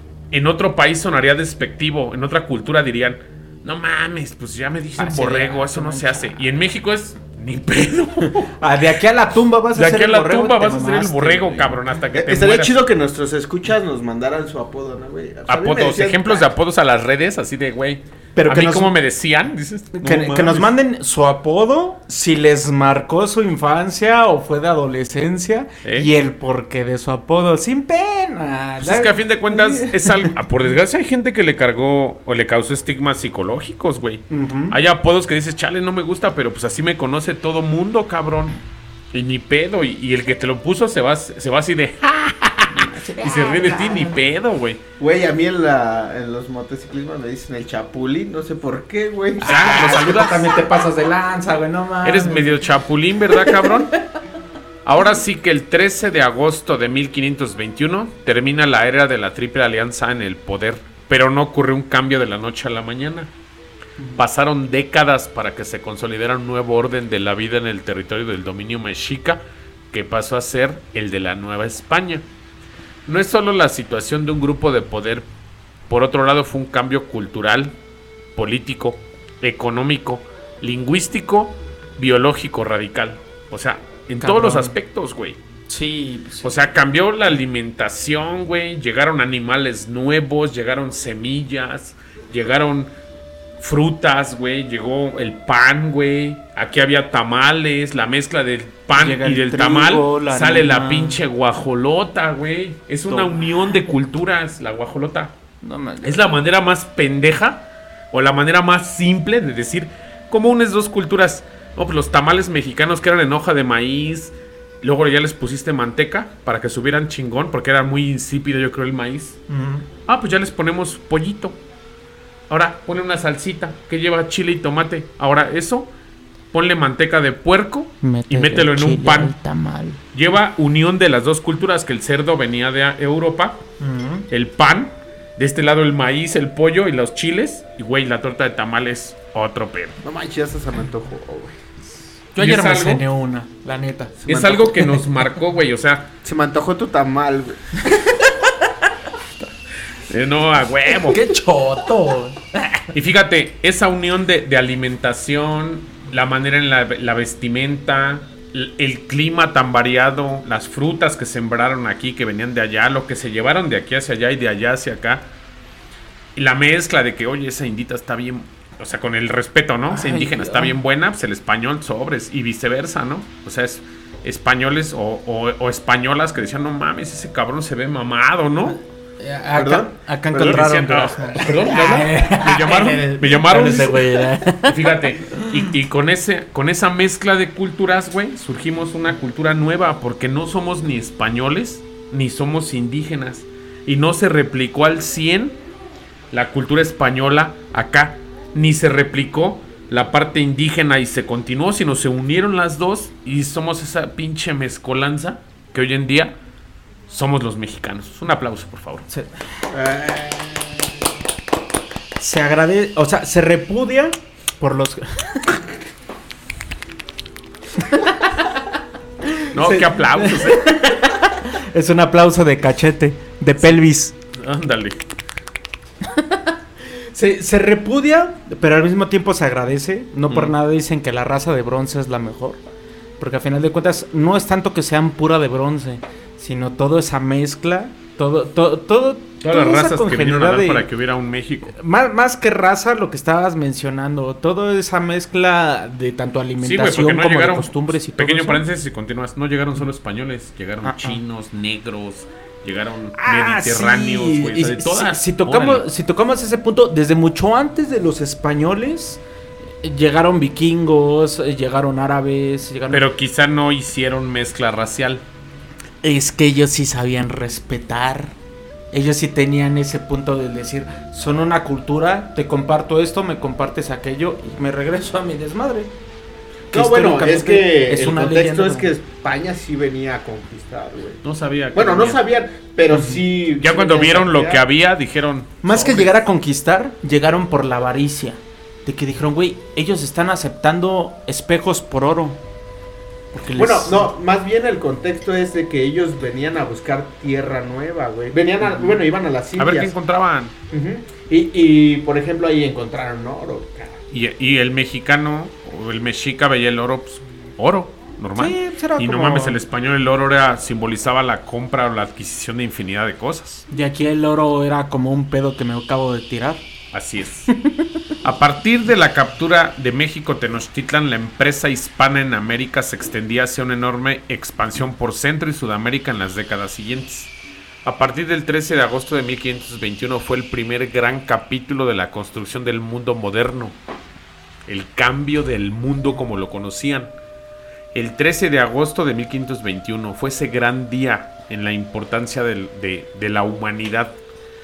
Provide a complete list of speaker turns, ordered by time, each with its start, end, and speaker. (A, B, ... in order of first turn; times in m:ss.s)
0:00.3-0:08.5 A
0:05.0-0:06.2 B
0:08.4-0:11.8 B
0:09.7-0:12.8 A
0:12.1-0:16.5 C
0:15.5-0:20.7 A
0:18.4-0:18.9 B
0:19.9-0:30.3 B
0:25.8-0:26.1 A
0:28.8-0:38.6 A
0:34.3-0:34.8 B
0:39.1-0:44.8 A
0:42.7-0:44.2 B
0:45.0-0:49.6 C
0:49.4-0:52.6 B
0:49.4-0:50.5 A
0:52.0-0:53.9 A
0:53.4-0:53.8 B
0:54.8-1:03.3 A
1:04.2-1:12.2 A
1:13.1-1:15.3 A
1:15.9-1:17.8 A
1:18.4-1:25.4 A
1:24.2-1:24.7 B
1:25.7-1:26.5 B
1:26.4-1:32.9 A
1:33.6-1:45.3 A
1:38.9-1:41.2 B
1:45.6-1:46.2 B
1:46.0-1:59.4 A
1:59.5-1:59.9 B
2:00.1-2:01.6 A
2:02.5-2:05.9 A
2:06.5-2:09.3 A
2:08.0-2:10.0 B
2:10.1-2:13.6 A
2:13.8-2:14.3 B
2:14.3-2:20.0 A
2:20.0-2:21.6 C
2:22.4-2:25.0 B
2:22.4-2:23.0 A
2:24.3-2:24.7 C
2:24.3-2:26.1 A
2:26.2-2:27.7 C
2:27.9-2:28.3 B
2:30.1-2:31.2 A
2:31.0-2:32.9 B
2:32.9-2:45.2 A
2:46.4-2:58.8 A
2:49.9-2:50.8 B
2:59.2-3:05.6 B
2:59.5-3:00.6 C
3:00.3-3:15.6 A
3:16.3-3:26.4 A
3:27.1-3:29.1 A
3:29.1-3:29.5 B
3:29.7-3:30.6 C
3:32.2-3:35.6 B
3:37.8-3:38.3 B
3:39.3-3:44.1 B
3:39.5-3:40.7 A
3:44.4-3:45.0 A
3:46.0-3:46.6 B
3:47.1-3:52.6 B
3:53.2-4:00.9 B
3:59.4-4:01.8 A
4:01.8-4:08.6 B
4:06.6-4:15.8 A
4:10.8-4:11.2 B
4:13.2-4:19.2 B
4:19.8-4:23.0 B
4:22.9-4:25.2 A
4:26.0-4:28.3 B
4:28.9-4:35.9 B
4:36.7-4:38.9 B
4:36.7-4:44.6 C
4:41.2-4:42.2 A
4:42.9-4:43.2 B
4:43.6-4:46.1 A
4:45.6-4:52.4 B
4:53.3-4:54.1 B
4:53.5-4:59.9 C
4:59.6-5:00.5 A
5:00.7-5:04.0 C
5:04.1-5:13.7 A
5:08.4-5:09.6 B
5:13.7-5:16.6 B
5:16.9-5:17.5 A
5:17.5-5:17.9 B
5:18.2-5:27.3 A
5:27.8-5:33.8 A
5:34.7-5:37.1 A
5:37.9-5:44.2 A